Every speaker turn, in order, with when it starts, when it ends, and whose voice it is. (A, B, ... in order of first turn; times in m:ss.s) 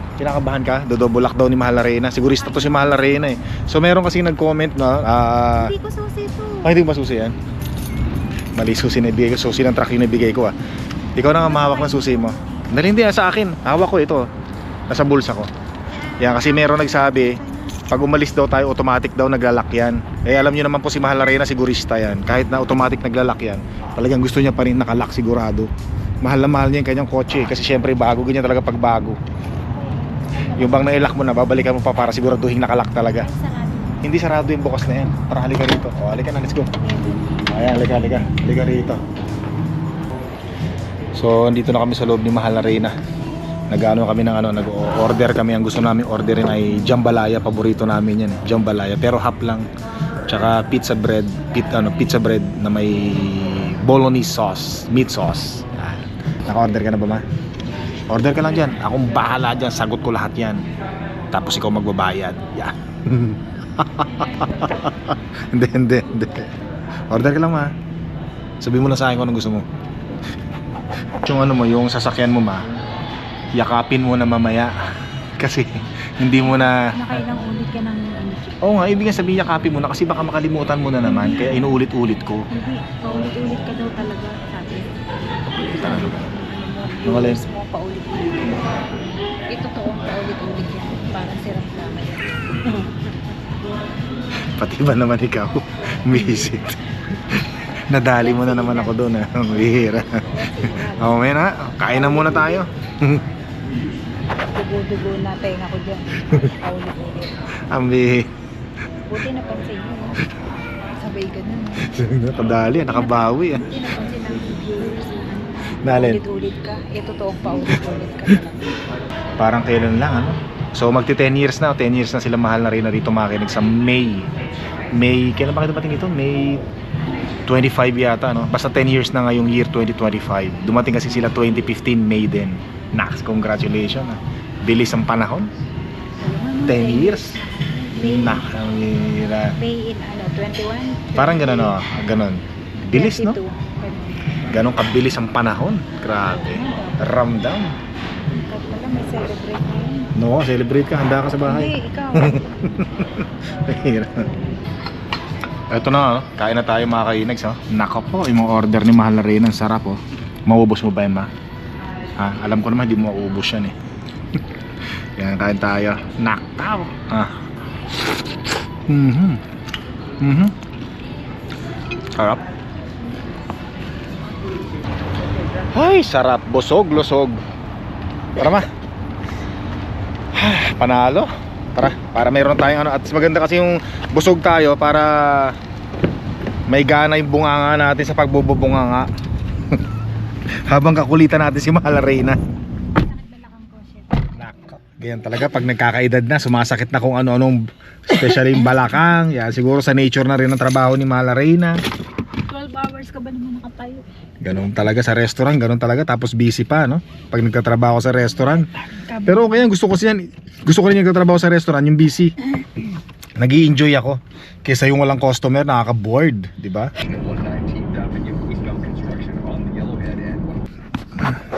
0:00.2-0:05.7 A
0:02.4-0:03.5 B
0:05.5-0:06.8 B
0:06.6-0:07.4 A
0:08.6-0:10.5 A
0:11.2-0:14.3 A
0:11.2-0:12.7 B
0:14.9-0:15.5 A
0:15.9-0:17.8 B
0:16.2-0:25.7 A
0:26.2-0:29.2 A
0:29.7-0:31.4 B
0:30.6-0:33.3 A
0:33.2-0:34.2 B
0:34.0-0:36.8 A
0:36.8-0:37.6 B
0:37.4-0:39.0 A
0:41.1-0:42.9 A
0:43.7-0:49.7 A
0:50.3-0:57.2 A
0:58.1-1:00.7 A
1:01.3-1:06.6 A
1:07.1-1:07.7 A
1:08.6-1:09.7 A
1:11.2-1:12.7 A
1:13.6-1:14.8 A
1:15.4-1:17.2 A
1:16.4-1:18.6 B
1:18.6-1:22.5 A
1:21.0-1:21.8 B
1:22.5-1:28.9 B
1:25.5-1:26.3 A
1:27.0-1:27.4 A
1:29.5-1:33.4 B
1:34.4-1:43.3 A
1:36.1-1:36.6 B
1:38.1-1:39.2 B
1:40.2-1:42.6 B
1:44.5-1:47.5 B
1:47.7-1:48.3 A
1:49.0-1:52.0 B
1:51.8-1:53.7 A
1:52.6-1:58.8 B
1:55.8-1:56.2 A
1:59.4-2:04.3 A
2:04.9-2:06.6 A
2:07.5-2:15.5 A
2:16.2-2:18.5 B
2:16.6-2:17.4 A
2:18.0-2:19.6 A
2:19.5-2:21.8 B
2:21.2-2:23.4 A
2:22.8-2:24.5 B
2:24.4-2:27.8 A
2:26.2-2:27.3 B
2:28.3-2:30.1 B
2:30.2-2:34.3 A
2:31.4-2:32.7 B
2:35.7-2:41.3 A
2:42.2-2:43.8 A
2:45.2-2:47.5 A
2:48.1-2:49.4 A
2:50.2-2:50.6 A
2:52.2-2:52.4 A
2:55.7-2:57.4 A
2:58.4-2:58.7 A
3:00.3-3:05.6 A
3:06.7-3:09.1 A
3:10.7-3:12.4 A
3:12.9-3:14.3 B
3:14.4-3:21.8 A
3:22.4-3:24.0 B
3:24.4-3:32.3 A
3:28.7-3:29.7 B
3:33.4-3:36.9 A
3:37.3-3:40.4 C